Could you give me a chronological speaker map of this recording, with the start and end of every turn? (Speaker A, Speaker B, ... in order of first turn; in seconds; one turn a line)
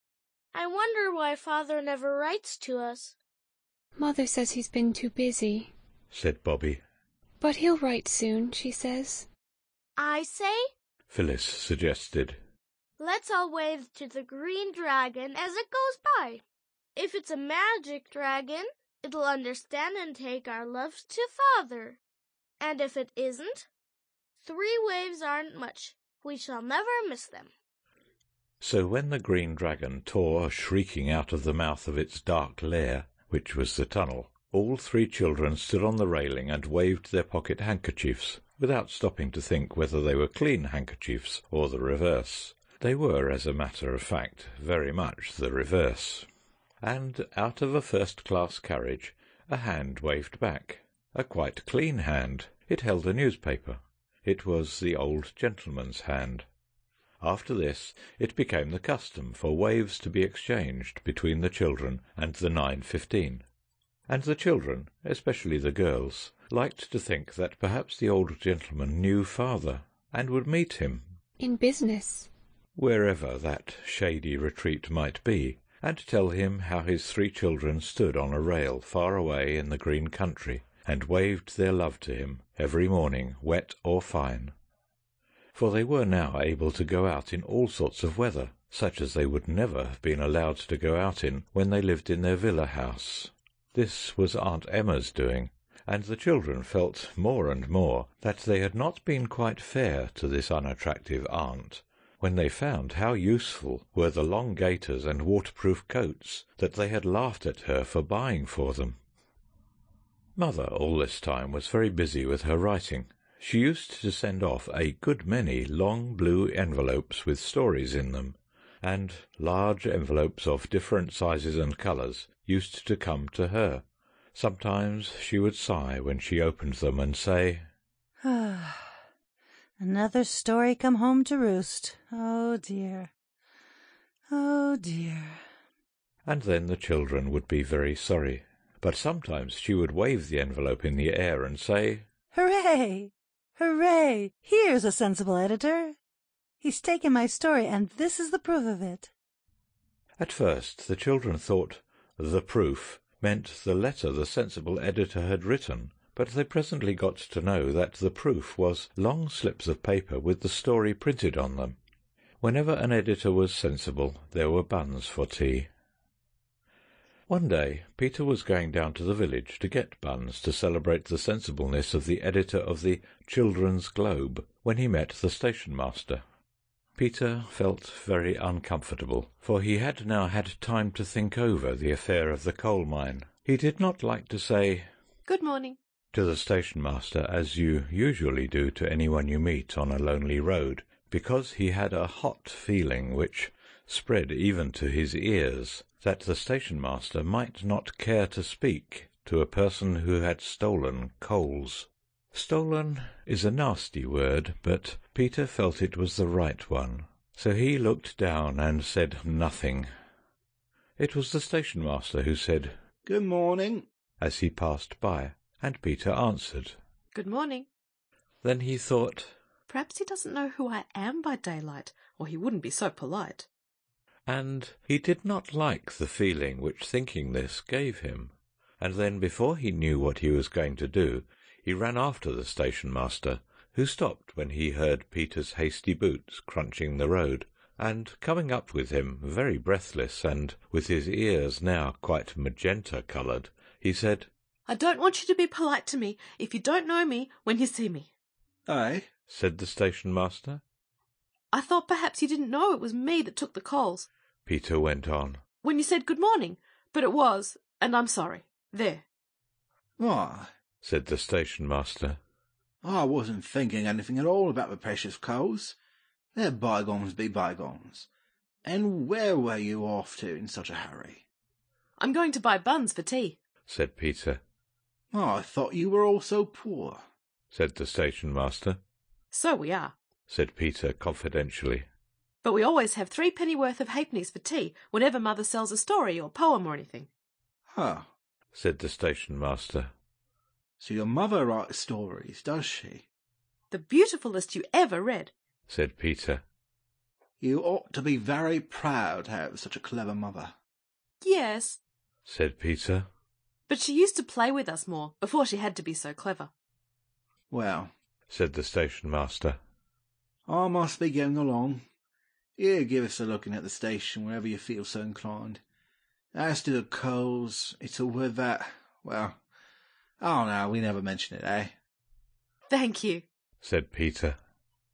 Speaker A: 0.5-3.1
Speaker B: 4.0-5.7
Speaker C: 6.1-6.8
Speaker B: 7.4-9.3
Speaker A: 10.0-10.7
Speaker C: 11.1-12.4
Speaker A: 13.0-16.4
Speaker A: 16.9-22.0
Speaker A: 22.6-23.7
Speaker A: 24.4-27.5
Speaker C: 28.6-46.3
Speaker C: 46.8-56.5
Speaker C: 57.2-63.4
Speaker C: 64.1-71.1
Speaker B: 71.4-72.3
Speaker C: 72.7-84.5
Speaker C: 85.5-109.0
Speaker C: 110.3-127.7
Speaker D: 128.2-128.9
Speaker D: 129.8-133.1
Speaker D: 134.3-135.4
Speaker C: 136.2-142.1
Speaker D: 142.3-146.0
Speaker D: 146.6-149.1
Speaker C: 150.2-161.8
Speaker C: 162.4-165.7
Speaker C: 167.3-176.2
Speaker C: 176.9-184.9
Speaker E: 185.2-185.8
Speaker C: 186.1-209.9
Speaker C: 211.0-212.8
Speaker F: 213.1-213.8
Speaker C: 214.2-216.8
Speaker E: 217.1-217.7
Speaker C: 218.4-219.4
Speaker E: 219.7-223.5
Speaker C: 224.3-244.3
Speaker E: 244.7-248.1
Speaker F: 248.7-249.1
Speaker C: 249.3-250.6
Speaker E: 251.5-254.1
Speaker C: 254.4-255.4
Speaker E: 255.6-259.1
Speaker F: 260.0-260.5
Speaker C: 260.8-262.2
Speaker F: 262.8-265.8
Speaker F: 266.3-268.1
Speaker F: 268.6-271.2
Speaker E: 272.0-273.4
Speaker C: 273.7-274.4
Speaker F: 275.1-277.1
Speaker C: 277.5-278.8
Speaker E: 279.3-279.9
Speaker C: 280.3-281.9
Speaker E: 282.4-287.1
Speaker F: 287.7-288.1
Speaker C: 288.5-289.9
Speaker F: 290.8-293.0
Speaker E: 293.7-295.3
Speaker C: 295.7-296.4
Speaker F: 297.4-300.5
Speaker E: 301.2-301.8
Speaker C: 302.2-303.1
Speaker E: 303.7-306.5
Speaker F: 307.5-307.9
Speaker C: 308.3-309.6
Speaker F: 310.5-311.8
Speaker F: 312.6-315.6
Speaker F: 316.3-319.4
Speaker F: 320.2-321.7
Speaker E: 322.7-323.2
Speaker C: 323.6-324.4